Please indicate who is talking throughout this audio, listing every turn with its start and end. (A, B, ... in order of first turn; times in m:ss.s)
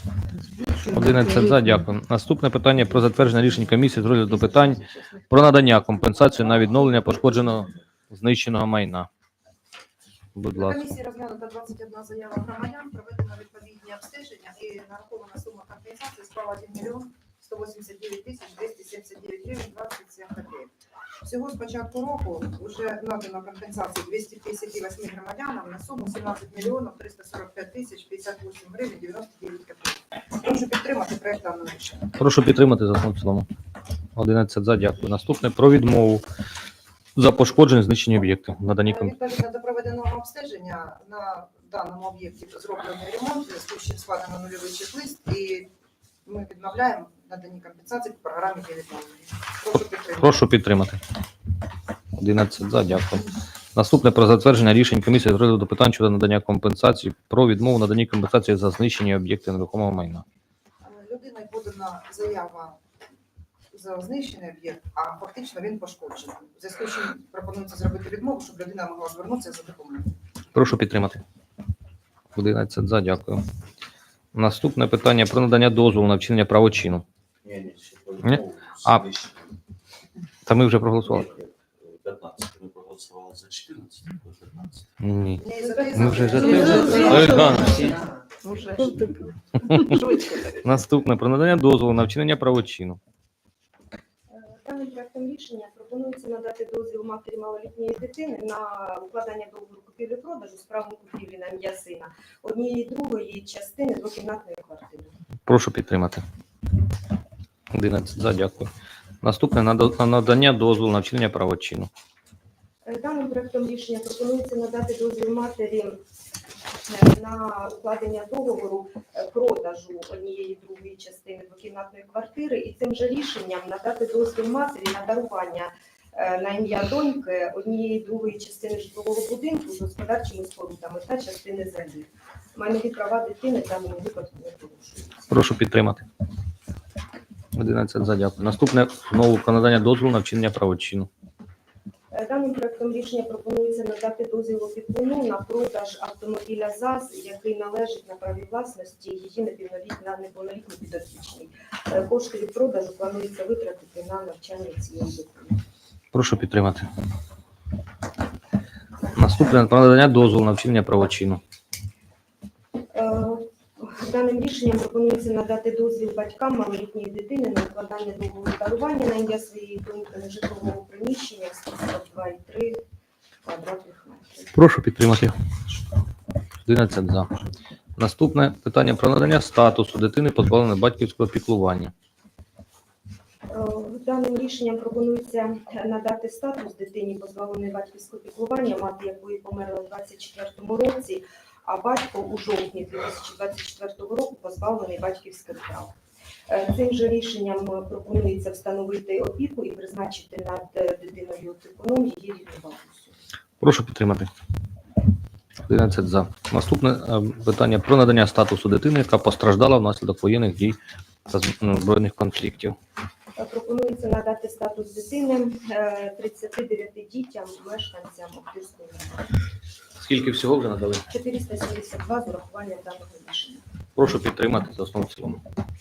0:00.8-0:09.1 A
0:10.3-0:10.8 A
0:10.5-0:32.1 B
0:32.2-0:33.4 A
0:34.2-0:36.2 A
0:37.2-0:39.1 A
0:38.8-0:45.7 B
0:46.2-0:50.4 B
0:50.2-0:51.0 A
0:52.2-1:00.2 A
1:00.8-1:02.8 B
1:03.7-1:10.1 B
1:10.5-1:11.2 A
1:12.3-1:13.4 A
1:14.3-1:17.0 A
1:17.4-1:19.4 C
1:18.2-1:19.0 A
1:20.4-1:21.3 A
1:21.0-1:24.8 C
1:25.0-1:28.0 A
1:25.4-1:28.6 B
1:25.6-1:27.5 D
1:29.6-1:30.0 A
1:30.6-1:33.0 A
1:34.3-1:45.1 D
1:45.5-1:46.2 A
1:47.7-1:48.7 A
1:49.2-1:51.9 A
1:52.8-1:56.0 D
1:56.9-2:15.2 D
2:15.3-2:16.0 A
2:17.5-2:21.1 A
2:22.1-2:35.6 D
2:36.1-2:36.8 A
2:39.1-2:41.4 A
2:42.9-2:52.8 D
2:53.4-2:54.5 D
2:54.5-2:55.3 A
2:56.6-2:57.3 A
2:58.0-3:01.9 A
3:03.5-3:15.9 D
3:16.5-3:23.1 D
3:23.6-3:24.3 A
3:25.6-3:32.8 A
3:33.4-3:39.2 D
3:40.0-3:41.1 A
3:41.1-3:43.6 D
3:44.0-3:45.4 A